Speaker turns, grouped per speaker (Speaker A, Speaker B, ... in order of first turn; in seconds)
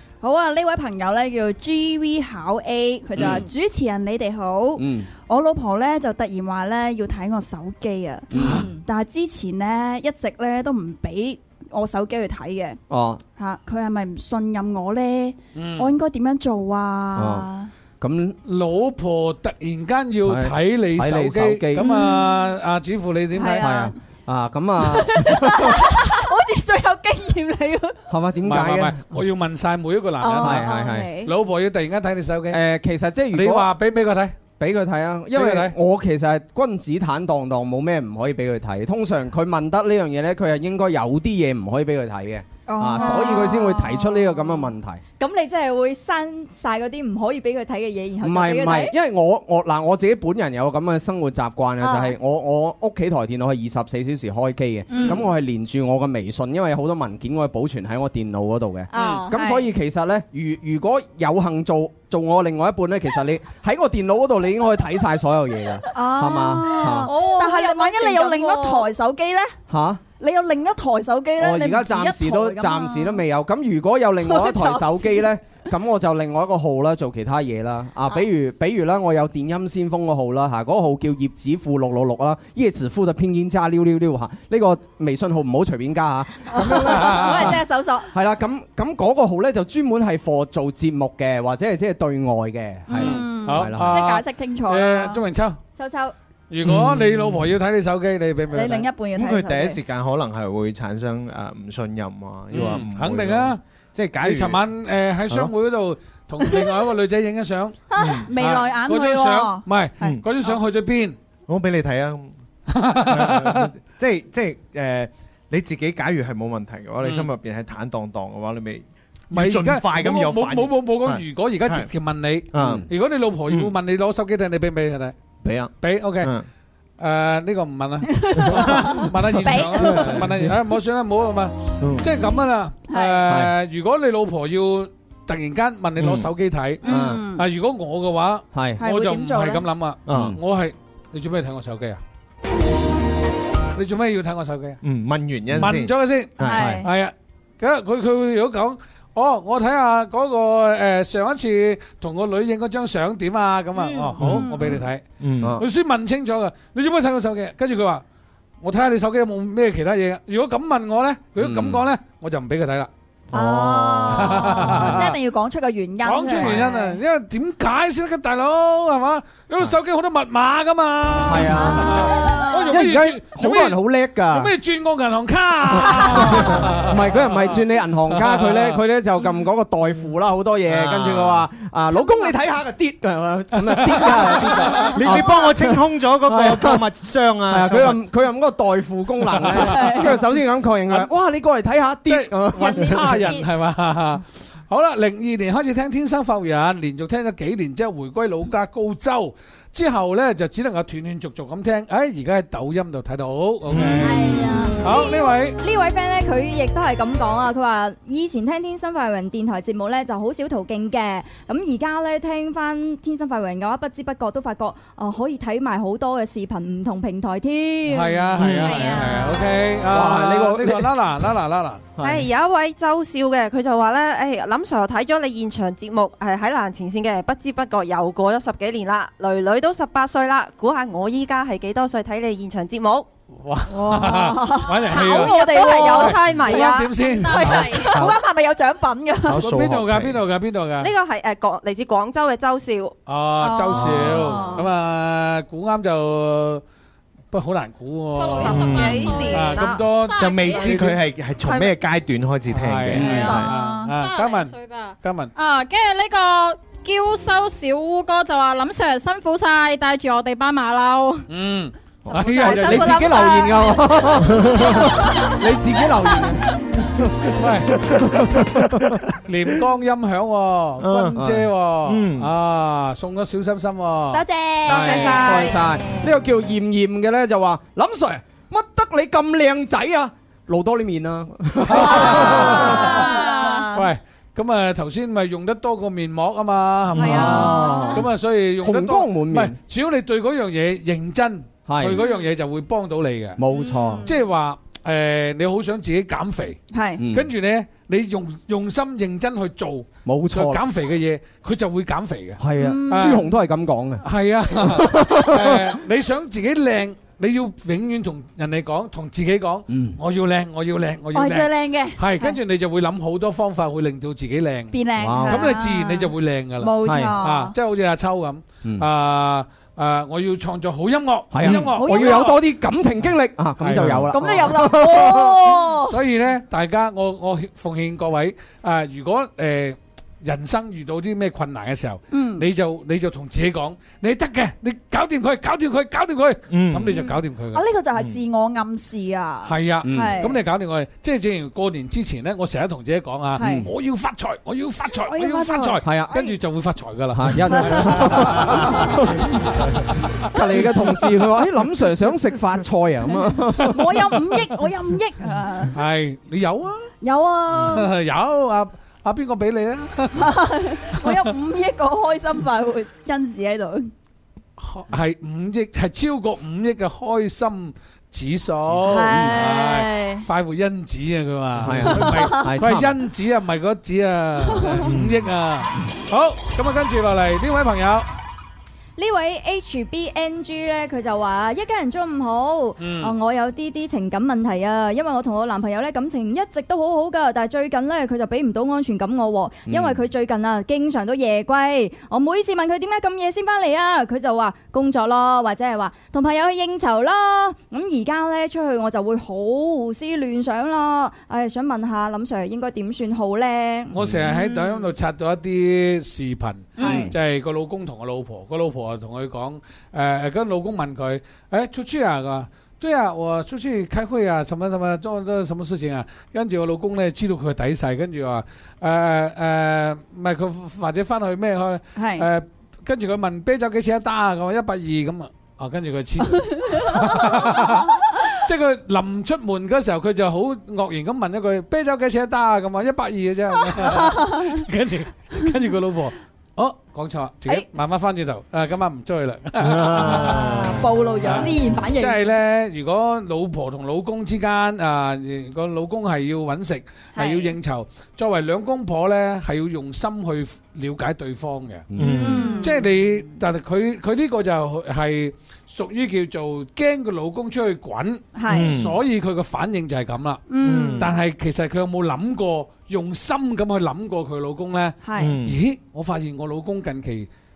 Speaker A: 0.2-12.8, 13.4-17.7, 21.8-22.6, 23.3-24.0, 24.8-28.0, 30.2-31.3, 42.7-44.6, 54.9-55.3, 59.0-59.6, 65.9-69.6, 70.2-73.2, 74.3-75.3, 92.9-95.2, 98.5-99.8, 108.3-110.5, 128.1-130.3, 132.9-133.3, 136.8-137.5, 138.8-139.7, 146.4-146.9, 153.9-154.8, 163.3-167.0, 171.5-172.8, 181.9-182.3, 184.3-184.9, 189.6-190.1, 192.6-193.5, 204.0-204.8, 218.4-219.6, 233.7-239.5, 243.4-244.7, 253.3-253.9, 274.1-276.1, 281.7-283.9, 287.0-288.0, 296.7-297.0, 302.6-303.3, 311.1-312.4, 314.7-317.6, 321.4-322.4, 324.1-326.0, 332.1-332.5, 336.9-340.4, 343.4-343.7, 344.9-346.4, 347.5-349.0, 353.1-355.8, 357.0-357.9, 360.1-363.9, 368.8-370.3, 371.9-372.5, 374.4-374.9, 404.3-404.9, 406.8-407.1, 422.0-422.3, 426.7-426.9, 433.8-434.6, 440.2-441.9, 447.1-447.6, 452.0-452.9, 458.4-458.8, 460.5-461.1, 465.0-465.4
Speaker B: 3.2-3.5, 4.8-5.1, 8.3-8.7, 12.9-13.2, 17.1-17.5, 18.0-18.4, 20.2-21.9, 23.6-25.9, 28.1-29.0, 30.4-31.1, 32.5-33.7, 34.6-45.0, 48.2-67.1, 69.7-70.0, 71.4-94.0, 122.6-122.8, 133.3-133.5, 136.8-137.2, 138.5-138.8, 140.1-140.4, 146.4-146.8, 161.4-161.8, 163.3-164.9, 171.2-172.2, 172.7-174.5, 175.7-186.8, 187.5-193.3, 218.4-218.8, 219.9-220.9, 222.0-222.3, 253.0-253.3, 262.2-267.1, 267.8-269.0, 275.1-283.0, 287.0-288.1, 288.6-289.6, 291.7-292.1, 293.4-294.1, 297.0-297.3, 300.1-300.6, 302.4-305.7, 309.7-310.0, 315.0-315.6, 316.8-317.2, 321.3-325.6, 339.8-340.3, 343.4-343.7, 345.8-346.2, 347.1-349.3, 350.3-354.1, 368.7-369.4, 371.6-373.0, 389.7-390.0, 406.8-407.1, 451.9-452.3
Speaker C: 8.4-8.7, 15.6-15.9, 18.5-23.8, 28.4-32.6, 33.3-34.4, 35.3-35.7, 86.6-87.6, 93.0-95.6, 96.5-98.9, 102.5-103.6, 104.2-107.8, 108.3-111.2, 112.7-113.7, 117.0-117.3, 119.3-125.2, 125.8-126.3, 127.0-142.0, 143.8-144.8, 145.5-158.0, 158.6-162.9, 164.1-165.2, 166.0-173.8, 174.3-177.6, 178.1-178.8, 180.9-181.4, 183.6-185.1, 189.4-190.1, 192.1-205.6, 217.9-221.8, 233.4-237.9, 239.4-240.9, 243.1-246.6, 247.3-248.6, 249.3-251.0, 252.5-255.3, 261.3-263.2, 267.4-267.8, 269.2-275.3, 281.6-293.4, 294.1-296.6, 297.1-303.3, 304.0-322.4, 323.6-324.6, 325.8-337.6, 339.4-350.4, 355.7-356.9, 357.6-360.3, 360.9-361.3, 364.6-378.1, 382.8-383.1, 403.9-451.9, 452.6-460.4, 461.0-467.3
Speaker D: 45.2-49.0, 51.8-52.1, 58.9-59.4, 67.0-68.9, 87.2-88.1, 95.8-96.1, 204.3-218.3, 379.0-404.0, 440.5-442.2
Speaker E: 96.6-97.5, 99.1-104.6, 108.0-108.3, 110.0-110.3, 111.5-112.3, 113.0-121.9, 122.5-122.9, 123.5-123.8, 125.4-126.5, 128.4-130.5, 131.8-132.1, 136.0-136.3, 140.1-140.4, 144.8-145.9, 154.2-155.6, 184.9-188.0, 203.7-204.6, 239.2-240.2, 243.8-244.1, 248.5-249.1, 250.2-253.5, 270.8-272.3, 336.5-337.0, 337.9-338.2, 374.9-375.3, 439.6-440.9, 451.9-452.6, 458.5-459.0, 460.5-461.1, 465.1-465.6
Speaker F: 222.0-233.1, 234.9-237.6, 240.8-243.0, 248.2-250.9, 251.4-251.8, 262.1-263.8, 274.6-275.6
Speaker G: 237.0-237.9, 248.1-250.8, 253.9-261.3